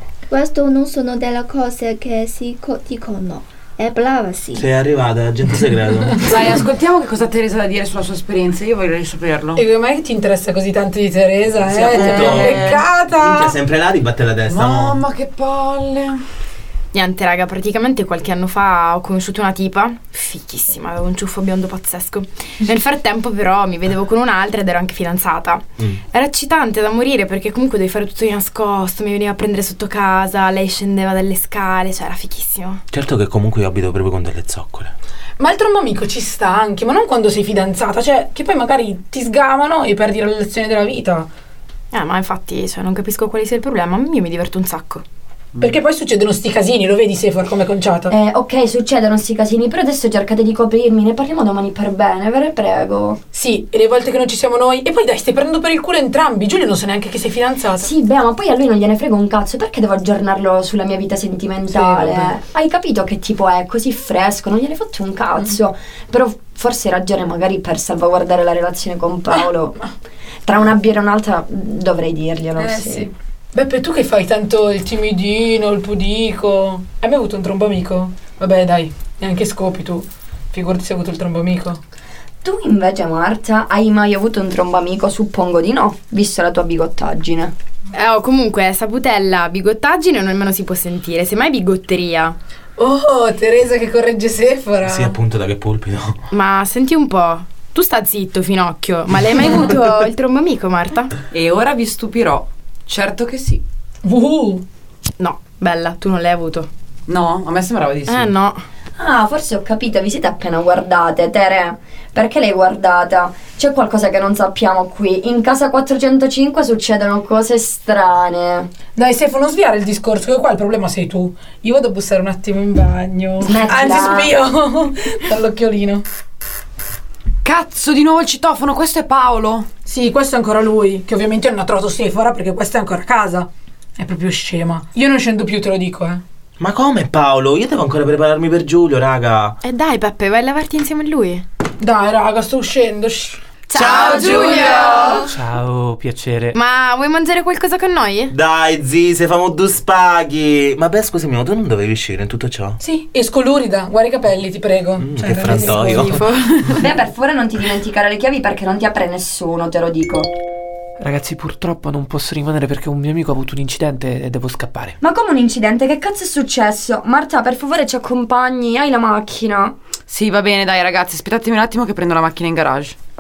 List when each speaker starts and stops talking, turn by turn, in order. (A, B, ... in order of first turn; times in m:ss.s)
0:00.3-0:04.6 A
0:04.6-0:06.4 B
0:06.2-0:09.6 C
0:09.6-0:13.6 D
0:11.7-0:15.0 B
0:11.9-0:12.8 C
0:14.5-0:16.2 C
0:16.9-0:32.8 E
0:32.9-0:34.9 B
0:35.4-0:41.3 D
0:41.9-0:45.0 E
0:45.6-0:48.1 D
0:48.1-0:53.2 F
0:53.3-0:57.9 D
0:57.8-1:09.8 F
1:01.7-1:02.3 D
1:10.5-1:13.1 F
1:12.6-1:21.8 D
1:22.4-1:27.5 F
1:27.9-1:32.4 E
1:32.8-1:35.2 D
1:34.8-1:36.2 B
1:36.3-1:41.2 E
1:41.3-1:43.6 C
1:44.0-1:44.6 D
1:45.2-1:46.7 E
1:47.1-1:48.4 C
1:48.1-1:48.6 E
1:49.0-1:58.7 F
1:59.0-2:06.0 D
2:03.4-2:04.4 F
2:07.4-2:09.7 C
2:09.9-2:16.2 D
2:16.6-2:19.6 B
2:19.6-2:21.4 E
2:21.8-2:25.3 D
2:23.7-2:25.3 E
2:23.7-2:25.2 B
2:25.3-2:26.6 G
2:26.5-2:28.3 E
2:28.3-2:32.8 B
2:32.8-2:36.2 D
2:35.0-2:36.3 B
2:35.5-2:36.9 E
2:36.8-2:40.3 F
2:41.0-2:45.0 G
2:45.0-2:49.8 F
2:50.1-2:53.0 C